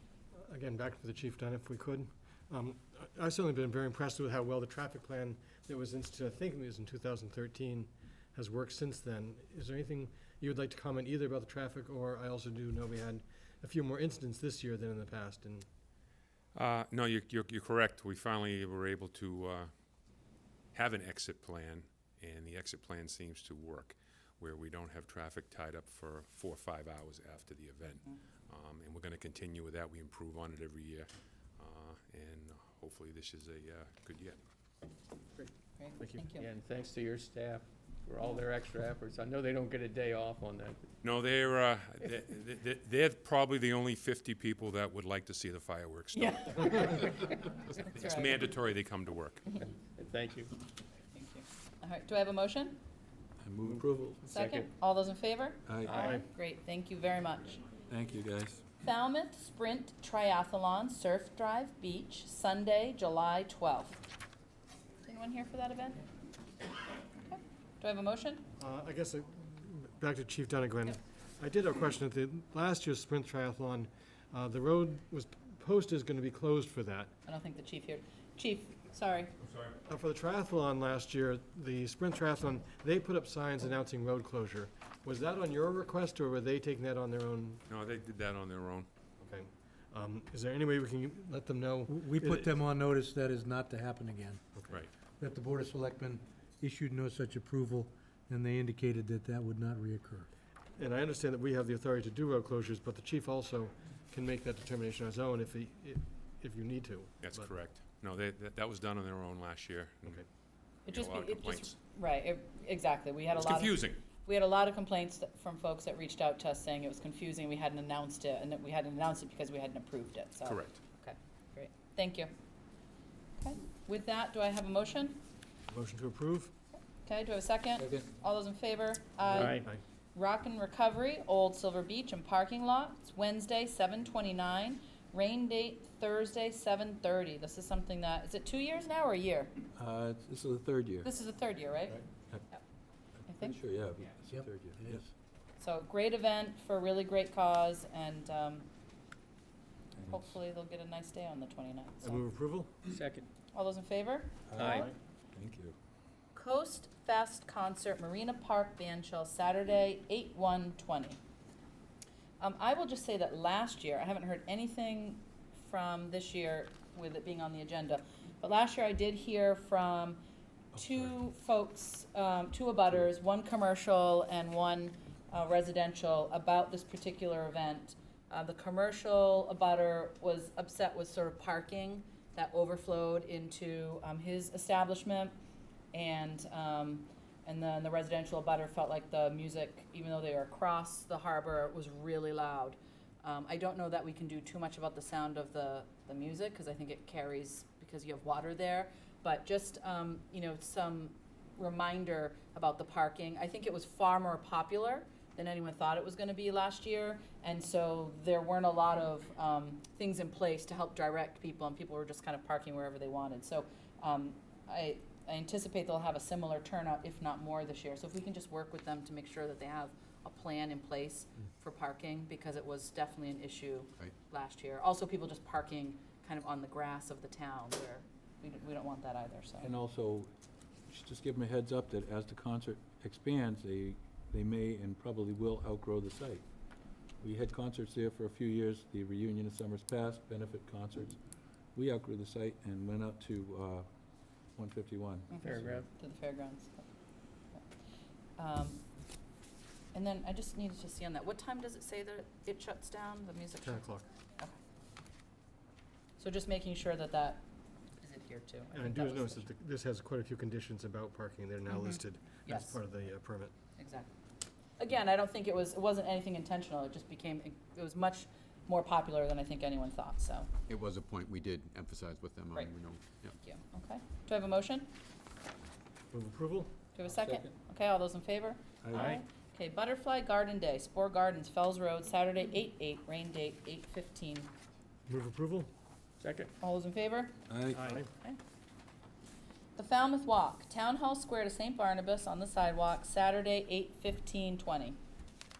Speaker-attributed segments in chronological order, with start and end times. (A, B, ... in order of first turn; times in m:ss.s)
0:00.4-0:15.7 A
0:16.5-0:19.7 B
0:20.7-0:34.4 B
0:35.4-0:36.3 A
0:35.8-0:36.5 C
0:36.3-0:40.9 D
0:41.0-0:49.6 B
0:46.2-0:48.4 C
0:49.8-0:50.5 D
0:51.1-0:52.8 C
0:53.4-0:54.2 E
0:53.7-0:54.7 D
0:54.3-0:57.6 C
0:55.7-0:56.0 E
0:55.8-0:56.2 D
0:57.9-0:58.6 E
0:58.8-1:04.0 C
1:05.0-1:06.0 C
1:07.3-1:08.4 C
1:08.6-1:17.1 A
1:17.2-1:19.3 C
1:19.9-1:27.6 A
1:27.7-1:28.9 B
1:29.2-1:32.5 A
1:31.8-1:34.4 F
1:35.2-1:40.3 F
1:40.8-1:47.5 A
1:47.2-1:50.2 B
1:50.9-1:51.8 B
1:50.9-2:02.3 C
1:53.3-1:54.0 B
2:00.4-2:00.8 B
2:03.4-2:05.2 C
2:05.7-2:06.5 A
2:07.0-2:09.6 C
2:07.8-2:08.1 E
2:09.3-2:09.7 D
2:09.5-2:09.8 A
2:10.1-2:19.5 C
2:19.8-2:21.1 E
2:21.0-2:22.6 C
2:23.3-2:25.1 E
2:23.3-2:23.6 C
2:24.3-2:25.0 F
2:25.6-2:28.7 C
2:30.0-2:30.3 E
2:30.0-2:32.2 C
2:32.0-2:32.8 A
2:32.9-2:33.2 D
2:33.5-2:34.8 C
2:34.5-2:35.8 E
2:34.6-2:34.9 D
2:36.3-2:41.2 C
2:42.4-2:50.2 C
2:50.7-2:51.1 E
2:50.8-3:05.4 C
3:05.9-3:49.7 C
3:49.6-3:50.3 E
3:50.9-3:56.4 E
3:57.2-4:01.2 E
4:01.7-4:03.8 E
4:04.6-4:05.8 E
4:05.3-4:06.8 C
4:05.4-4:05.9 D
4:08.4-4:08.8 C
4:09.9-4:14.6 C
4:13.6-4:14.0 A
4:16.2-4:17.4 C
4:18.0-4:19.5 C
4:18.7-4:23.5 A
4:21.7-4:22.8 C
4:23.8-4:24.1 C
4:24.8-4:30.5 C
4:30.7-4:33.3 G
4:33.4-4:34.9 C
4:36.1-4:36.7 A
4:36.9-4:44.5 C
4:37.0-4:37.5 E
4:38.8-4:39.2 E
4:45.1-4:45.7 A
4:46.2-4:46.5 D
4:46.6-4:47.4 C
4:47.5-4:47.8 E
4:47.7-4:48.1 A
4:49.8-4:55.0 C